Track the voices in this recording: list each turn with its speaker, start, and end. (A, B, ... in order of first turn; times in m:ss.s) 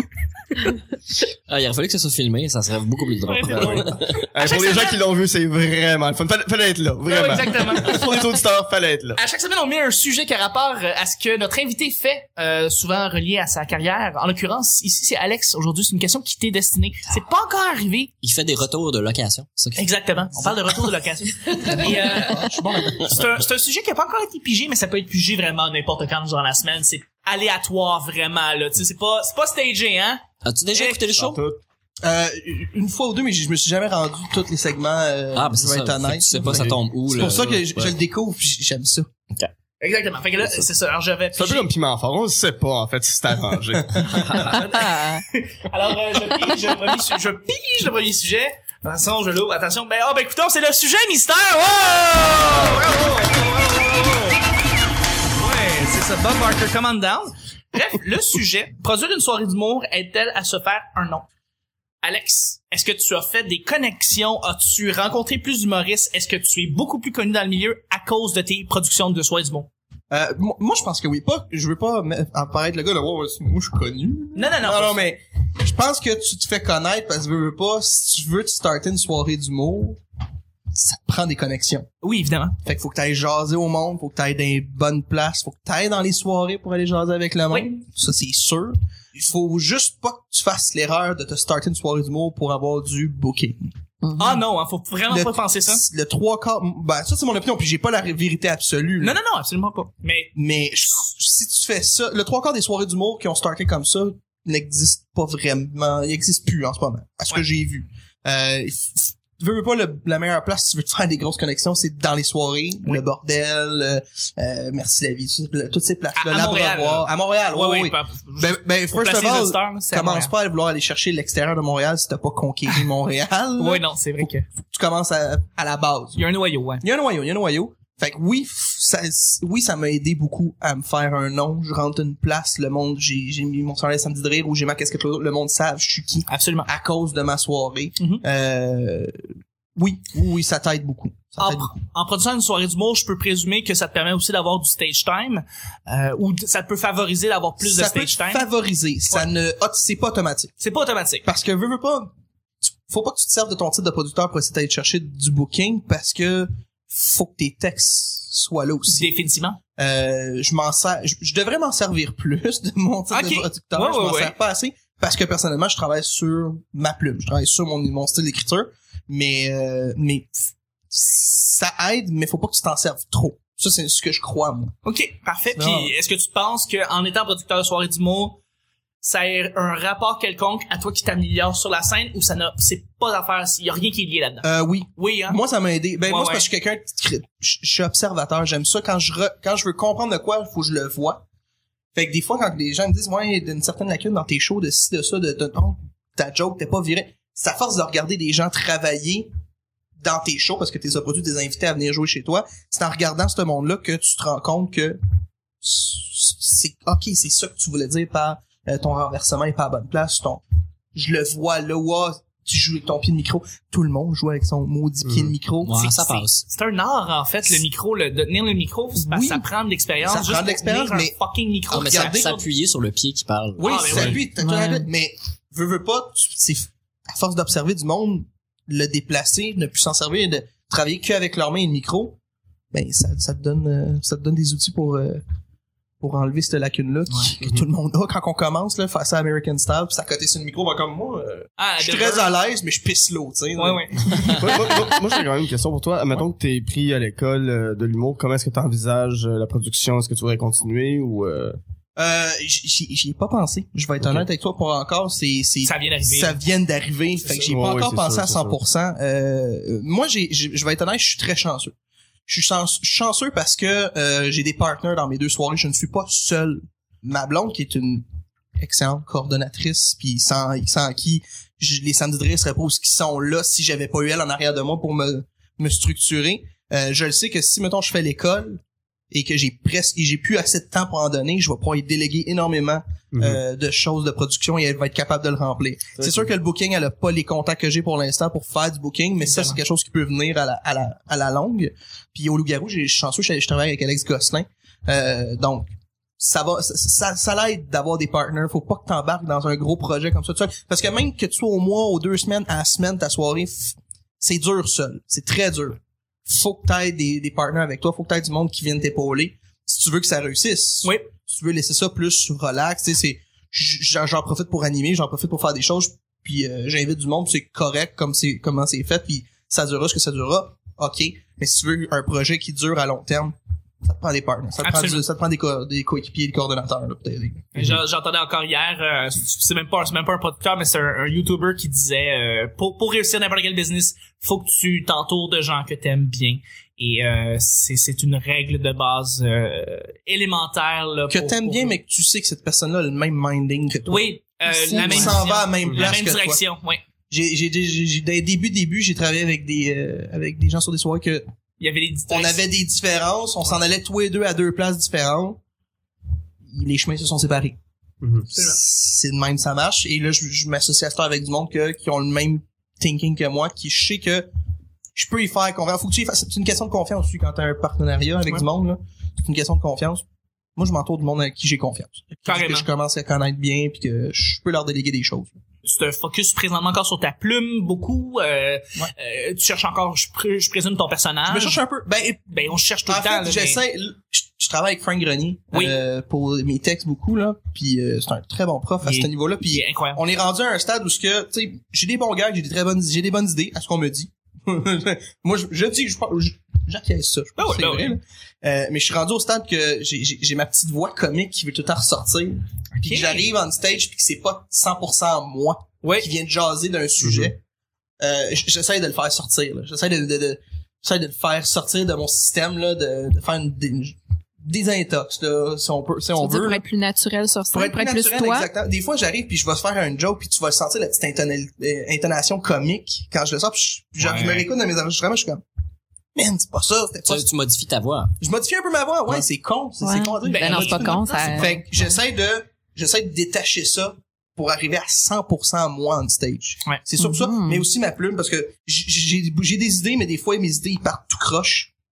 0:01.5-0:04.2 A
0:03.3-0:05.0 B
0:03.5-0:09.2 C
0:07.1-0:08.3 B
0:09.2-0:18.1 B
0:18.2-0:19.9 A
0:19.8-0:22.5 B
0:21.5-0:23.3 D
0:23.0-0:30.2 B
0:30.4-0:31.4 A
0:30.7-0:31.0 B
0:31.1-0:31.6 C
0:32.0-0:39.1 D
0:35.3-0:37.8 A
0:36.4-0:37.9 C
0:39.8-0:41.7 B
0:41.3-0:44.5 C
0:44.1-0:44.5 A
0:44.3-0:54.4 B
0:55.4-1:01.3 B
1:02.0-1:09.7 B
1:10.1-1:20.0 D
1:14.3-1:15.1 B
1:20.7-1:21.9 D
1:22.0-1:22.6 B
1:22.6-1:33.7 D
1:27.5-1:27.8 B
1:34.0-1:34.4 E
1:34.2-1:35.8 B
1:35.1-1:39.2 D
1:39.0-1:40.3 B
1:40.3-2:06.2 D
1:56.2-2:00.3 B
2:03.6-2:04.4 B
2:06.1-2:06.8 B
2:06.8-2:19.2 D
2:16.3-2:16.7 B
2:19.8-2:21.7 D
2:21.4-2:28.4 B
2:27.6-2:30.5 D
2:30.6-2:31.2 B
2:31.2-2:32.1 D
2:32.6-2:39.1 D
2:38.9-2:39.6 B
2:39.8-2:54.7 D
2:43.1-2:44.3 B
2:54.8-2:58.4 B
2:55.5-2:55.9 D
2:59.0-3:05.4 B
3:04.4-3:11.2 D
3:06.0-3:06.4 B
3:11.9-3:19.3 D
3:20.0-3:25.0 D
3:25.6-3:30.4 D
3:30.9-3:35.8 D
3:35.0-3:35.3 C
3:35.6-3:36.4 A
3:35.7-3:42.4 B
3:39.0-3:39.4 D
3:40.0-3:41.1 D
3:41.7-3:42.3 D
3:41.7-3:43.8 A
3:43.6-3:52.2 D
3:43.6-3:44.2 B
3:44.4-3:44.9 E
3:52.7-3:55.2 D
3:56.0-4:04.5 D
4:01.6-4:02.3 B
4:03.6-4:04.5 B
4:04.2-4:11.6 C
4:12.0-4:21.7 D
4:14.0-4:14.3 C
4:15.6-4:16.4 B
4:17.2-4:17.6 B
4:17.5-4:18.6 C
4:22.3-4:28.0 D
4:28.6-5:27.6 D
4:43.1-4:43.4 C
4:46.0-4:46.3 C
4:49.2-4:49.6 B
5:24.6-5:25.0 B
5:27.5-5:41.8 B
5:41.1-5:44.1 D
5:43.9-5:46.8 B
5:44.6-5:45.2 E
5:44.6-5:46.4 D
5:47.1-5:51.2 D
5:51.6-5:52.4 B
5:52.1-5:55.4 D
5:56.5-5:57.6 D
5:58.0-5:58.3 C
5:58.3-6:04.3 D
6:05.0-6:10.0 D
6:10.6-6:15.4 D
6:12.3-6:12.7 B
6:15.6-6:21.6 B
6:21.3-6:22.3 D
6:22.3-6:23.6 B
6:22.9-6:47.4 D
6:25.5-6:25.8 B
6:28.8-6:30.0 B
6:37.4-6:38.0 B
6:42.8-6:43.3 B
6:45.8-6:46.1 B
6:47.0-6:47.3 C
6:48.0-6:56.6 D
6:56.2-6:58.5 E
6:57.5-7:05.4 D
7:04.0-7:04.5 B
7:06.1-7:07.3 D
7:07.0-7:08.1 A
7:08.2-7:21.7 D
7:09.8-7:11.6 E
7:10.2-7:11.6 B
7:17.0-7:17.6 E